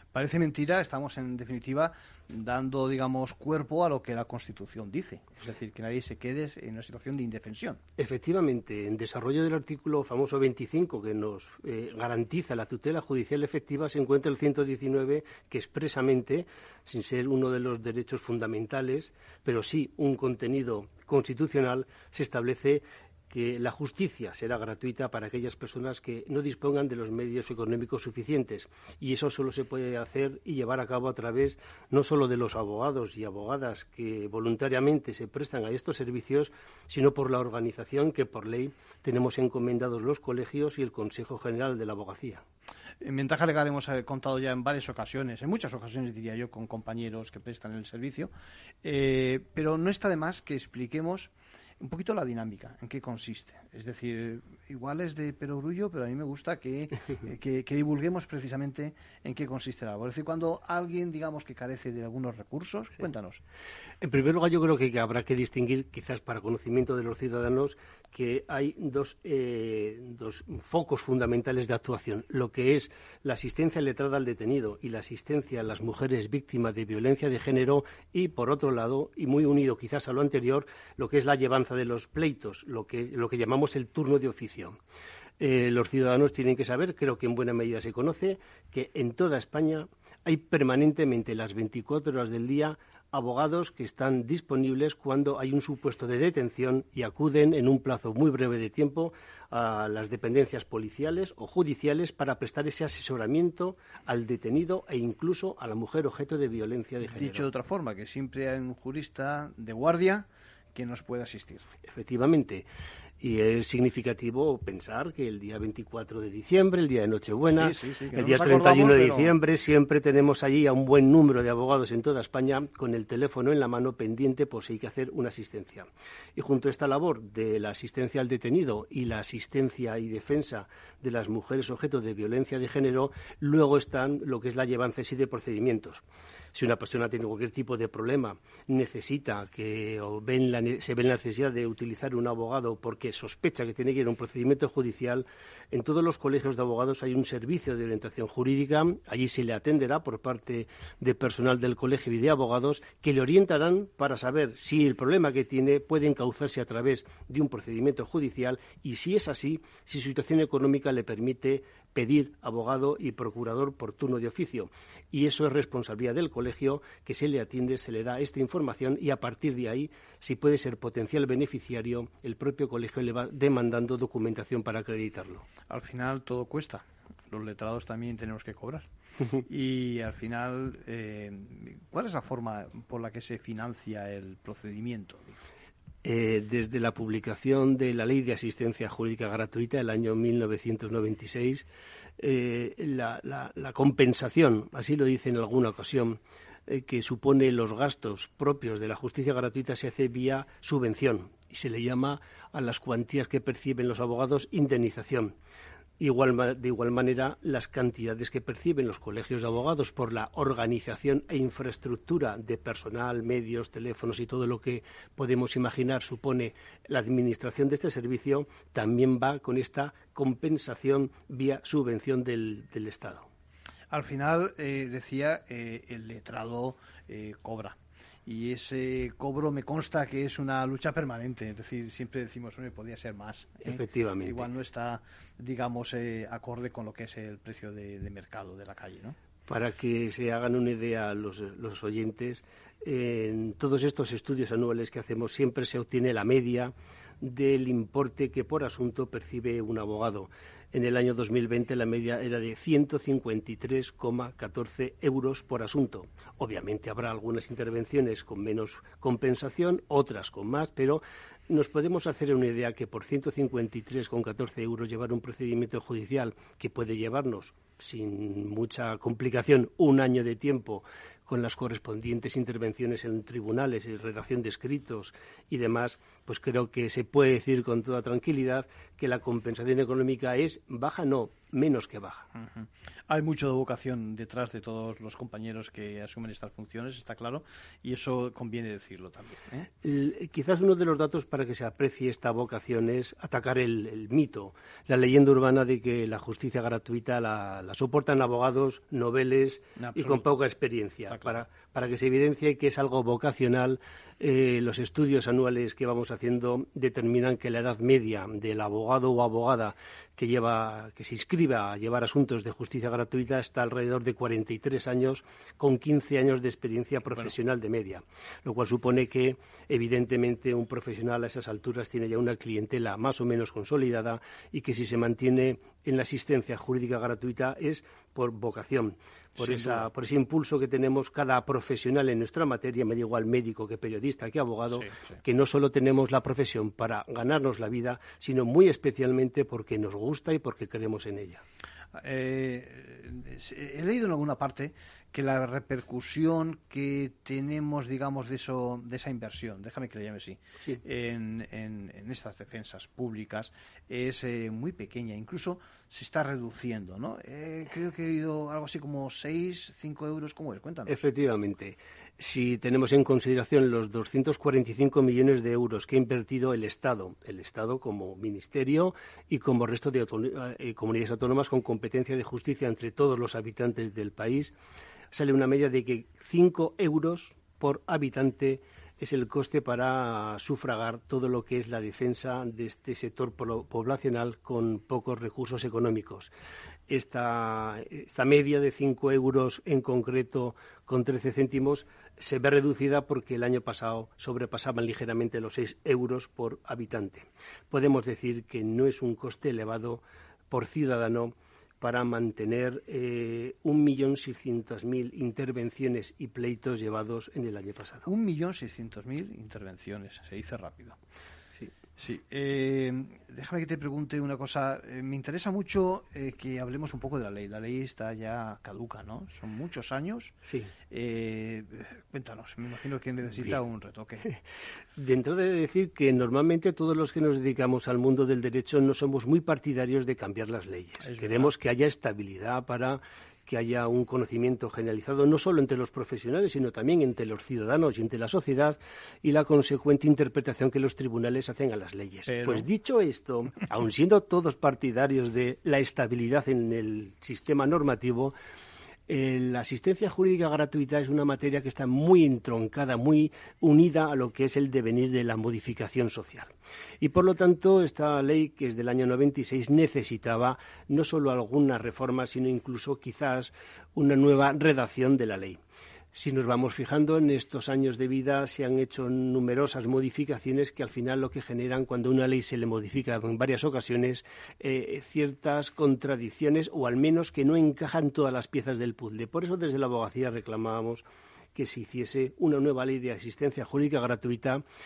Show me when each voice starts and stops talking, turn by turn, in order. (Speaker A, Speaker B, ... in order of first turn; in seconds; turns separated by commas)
Speaker A: 0.1-7.8, Speaker B: 8.0-42.4, Speaker A: 43.0-48.3, Speaker A: 48.8-63.4, Speaker B: 64.0-84.8, Speaker B: 85.4-107.5, Speaker A: 107.0-111.7, Speaker B: 111.8-112.7, Speaker B: 113.2-136.0, Speaker A: 117.5-119.3, Speaker B: 136.5-175.4, Speaker A: 175.7-178.8, Speaker A: 179.4-185.4, Speaker B: 186.0-191.7, Speaker B: 192.2-205.3, Speaker B: 206.0-223.3, Speaker A: 223.9-239.2, Speaker B: 233.6-234.5, Speaker B: 239.5-282.3, Speaker A: 282.3-289.7, Speaker B: 289.8-341.4, Speaker A: 299.8-300.3, Speaker A: 301.1-301.4, Speaker A: 329.4-329.9, Speaker A: 334.7-335.2, Speaker A: 342.0-361.0, Speaker B: 360.9-374.5, Speaker B: 375.1-386.3, Speaker B: 386.9-408.1, Speaker A: 408.1-411.0, Speaker A: 412.0-420.4, Speaker B: 420.4-420.7, Speaker A: 420.9-424.3, Speaker B: 425.0-448.3, Speaker A: 431.0-431.5, Speaker A: 442.3-442.6, Speaker B: 449.1-465.6, Speaker B: 466.1-484.6